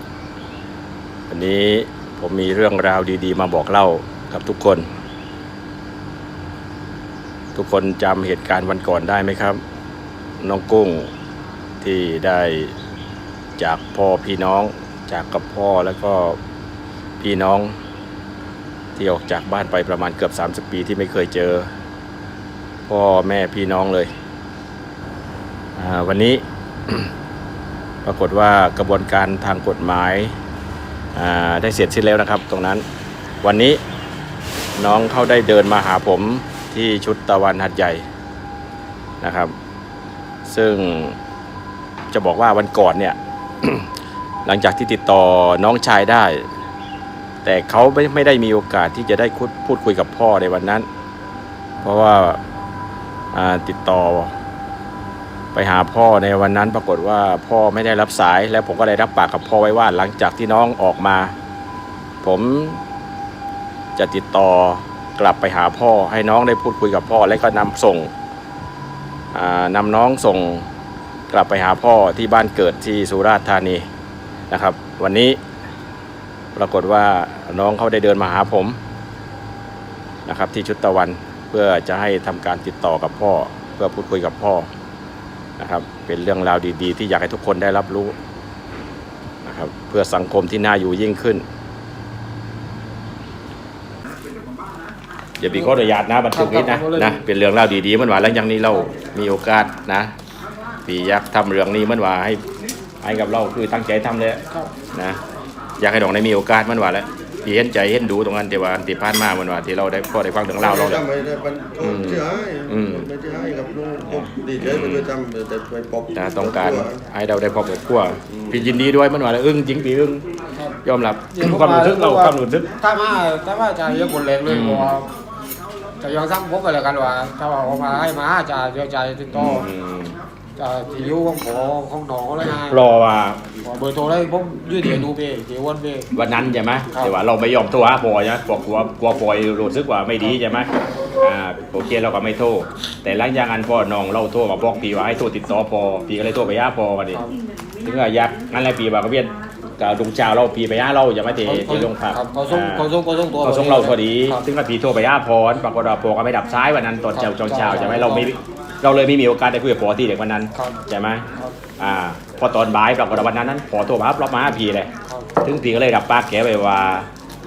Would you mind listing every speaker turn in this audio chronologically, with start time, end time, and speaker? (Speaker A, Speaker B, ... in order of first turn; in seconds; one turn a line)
Speaker A: 1.3-4.9
Speaker A: 7.5-9.6
Speaker A: 10.4-11.1
Speaker A: 11.8-12.7
Speaker A: 13.6-16.4
Speaker A: 17.2-17.8
Speaker A: 19.0-21.7
Speaker A: 22.9-24.1
Speaker A: 25.8-27.1
Speaker A: 28.1-30.4
Speaker A: 31.1-32.9
Speaker A: 33.4-33.8
Speaker A: 34.8-38.0
Speaker A: 39.2-39.5
Speaker A: 40.5-41.2
Speaker A: 42.1-43.9
Speaker A: 44.5-46.5
Speaker A: 47.4-50.9
Speaker A: 51.8-52.4
Speaker A: 53.3-54.3
Speaker A: 55.5-61.4
Speaker A: 62.2-62.8
Speaker A: 64.0-68.1
Speaker A: 69.3-70.7
Speaker A: 71.3-73.9
Speaker A: 74.5-75.4
Speaker A: 76.5-78.8
Speaker A: 80.3-84.7
Speaker A: 85.6-88.2
Speaker A: 89.5-91.4
Speaker A: 95.4-100.1
Speaker B: 95.5-95.7
Speaker B: 96.3-97.2
Speaker A: 100.9-102.4
Speaker A: 103.0-104.4
Speaker A: 104.9-105.2
Speaker A: 105.8-111.0
Speaker C: 110.6-117.0
Speaker A: 111.8-113.1
Speaker A: 114.1-115.1
Speaker A: 116.2-120.2
Speaker A: 120.8-122.7
Speaker B: 121.3-125.1
Speaker A: 124.5-125.0
Speaker B: 126.0-129.7
Speaker A: 129.3-130.2
Speaker B: 130.6-132.8
Speaker A: 132.6-133.4
Speaker B: 133.6-136.1
Speaker A: 136.1-147.2
Speaker A: 147.8-161.3
Speaker B: 151.4-154.4
Speaker B: 157.1-158.3
Speaker B: 160.6-160.8
Speaker A: 161.8-164.9
Speaker B: 165.1-165.3
Speaker A: 165.4-167.1